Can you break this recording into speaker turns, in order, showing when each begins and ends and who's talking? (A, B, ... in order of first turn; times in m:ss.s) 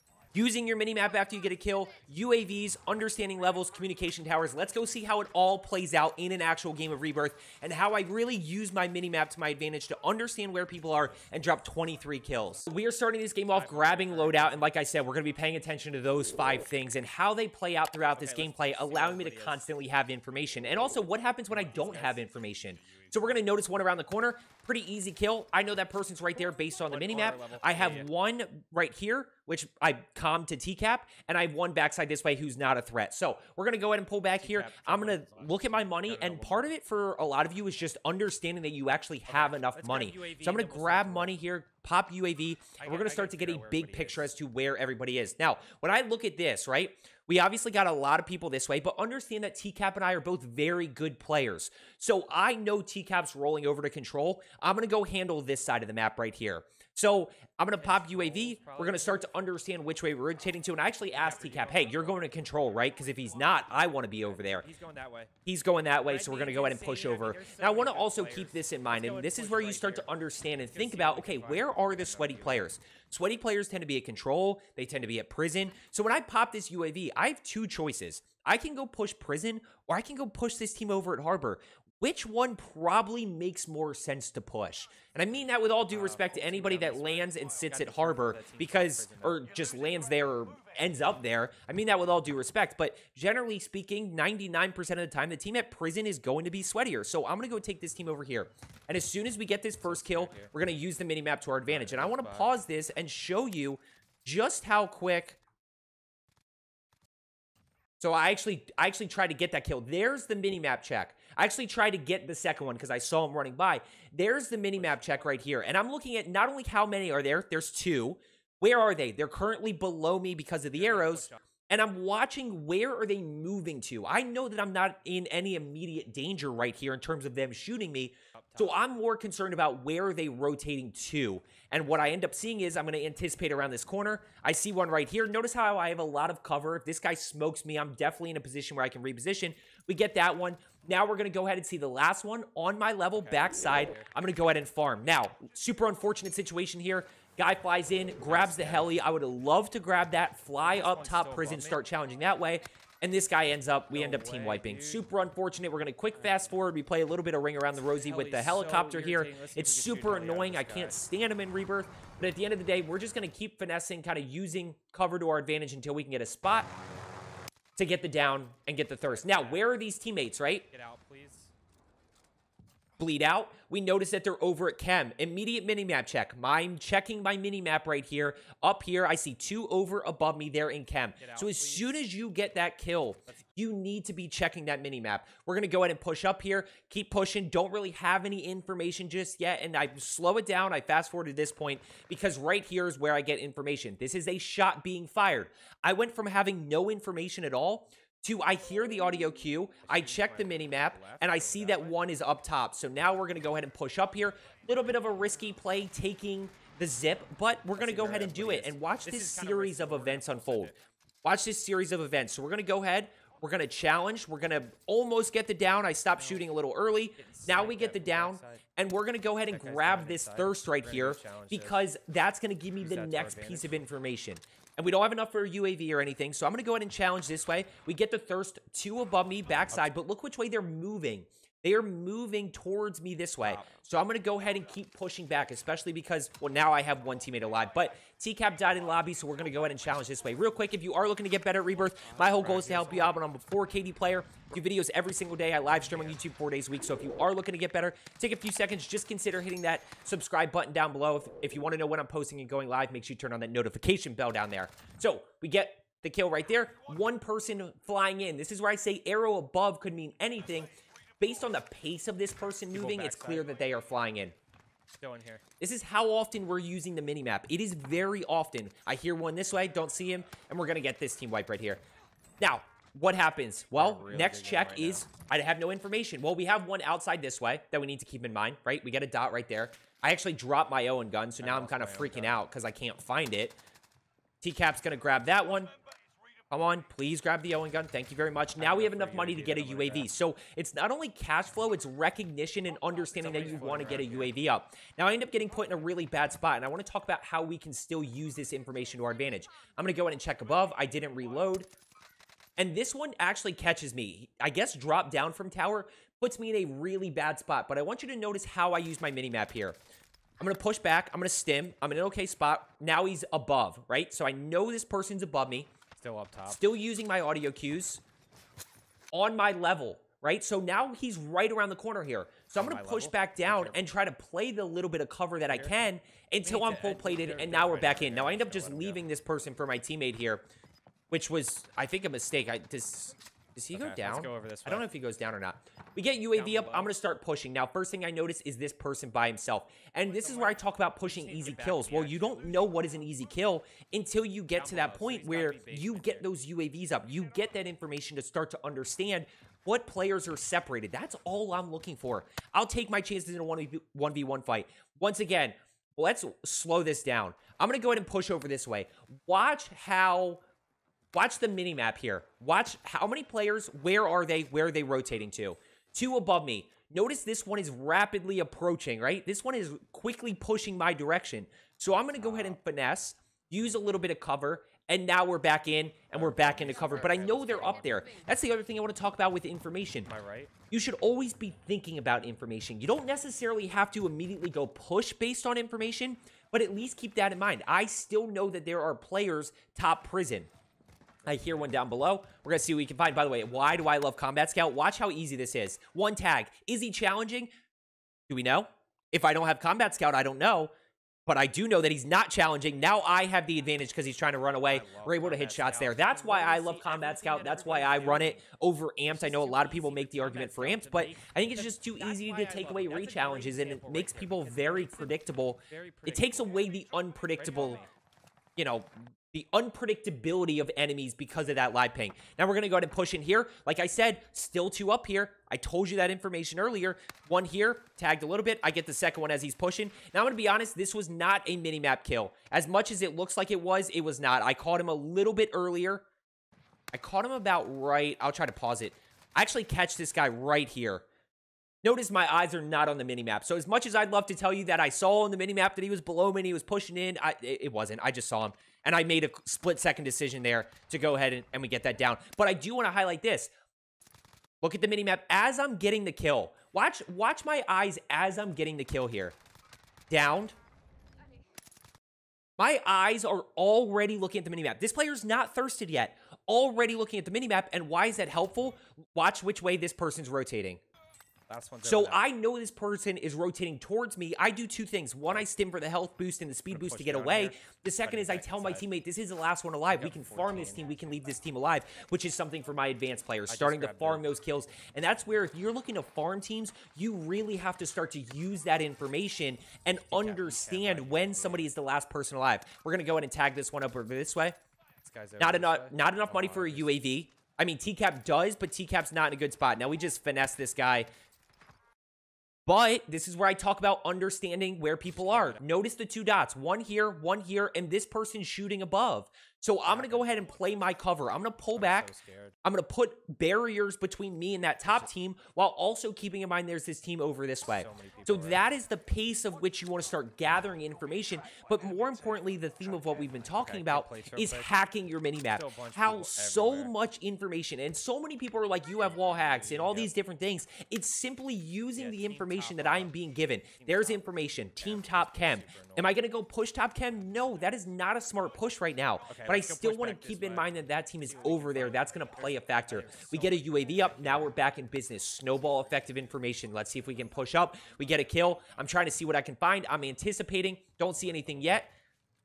0:00.3-1:04.6 A
0:13.5-0:14.9 B
0:18.1-0:19.7 B
0:21.5-0:22.3 B
0:26.8-0:28.1 B
0:34.4-0:36.7 B
0:39.3-0:41.4 B
0:42.8-0:44.3 B
0:57.8-0:59.4 B
1:01.1-1:02.3 B
1:04.2-1:05.3 B
1:05.4-1:45.4 A
1:06.0-1:10.1 B
1:10.6-1:12.7 B
1:25.9-1:29.5 B
1:39.8-1:40.5 B
1:41.7-1:42.5 B
1:48.0-2:46.7 A
1:54.8-1:55.6 B
2:00.7-2:01.4 B
2:08.4-2:08.9 B
2:23.2-2:24.2 B
2:28.2-2:28.9 B
2:30.6-2:31.8 B
2:33.9-2:35.0 B
2:38.0-2:41.0 B
2:47.8-2:50.7 A
2:49.1-2:49.7 B
2:50.7-2:51.5 B
2:53.0-3:30.7 A
3:01.2-3:02.0 B
3:19.8-3:22.1 B
3:27.8-3:30.8 B
3:31.2-4:24.4 A
3:37.2-3:38.6 B
3:39.5-3:41.8 B
3:42.8-3:43.9 B
3:53.4-3:53.8 B
4:01.9-4:03.2 B
4:05.8-4:06.2 B
4:22.7-4:23.5 B
4:25.0-4:25.4 B
4:25.6-4:31.8 A
4:32.4-4:43.6 A
4:33.7-4:35.1 B
4:41.4-4:42.4 B
4:44.4-4:45.7 A
4:46.5-5:01.7 A
4:48.6-4:50.1 B
4:53.2-4:54.3 B
5:02.6-5:09.8 A
5:10.4-5:15.7 A
5:16.0-5:16.6 B
5:16.4-5:18.0 A
5:19.1-5:30.4 A
5:22.6-5:23.8 B
5:25.5-5:25.7 B
5:26.4-5:29.0 B
5:31.1-6:00.4 A
5:33.7-5:34.8 B
5:36.3-5:36.9 B
5:40.1-5:42.6 B
5:44.6-5:46.3 B
6:01.1-6:20.1 A
6:16.1-6:18.0 B
6:20.0-6:20.5 B
6:20.7-6:30.5 A
6:31.2-6:37.5 A
6:38.3-6:40.7 A
6:41.3-6:57.8 A
6:44.6-6:48.4 B
6:49.1-6:56.6 B
6:57.3-6:57.9 B
6:58.6-7:16.0 A
7:16.9-7:21.1 A
7:21.8-7:33.5 A
7:34.6-7:39.4 A
7:40.1-7:40.6 A
7:42.6-7:50.8 A
7:51.5-7:52.2 B
7:51.8-8:14.6 A
7:56.7-7:58.9 B
7:59.9-8:00.9 B
8:03.5-8:04.2 B
8:10.1-8:11.7 B
8:15.0-8:17.0 B
8:15.4-8:21.1 A
8:22.7-8:32.1 A
8:25.2-8:25.6 B
8:29.9-8:30.4 B
8:31.8-8:32.6 B
8:32.6-9:11.9 A
8:37.7-8:38.6 B
8:41.7-8:44.7 B
8:45.5-8:46.9 B
8:49.1-8:50.1 B
8:52.0-8:56.2 B
8:59.3-9:04.6 B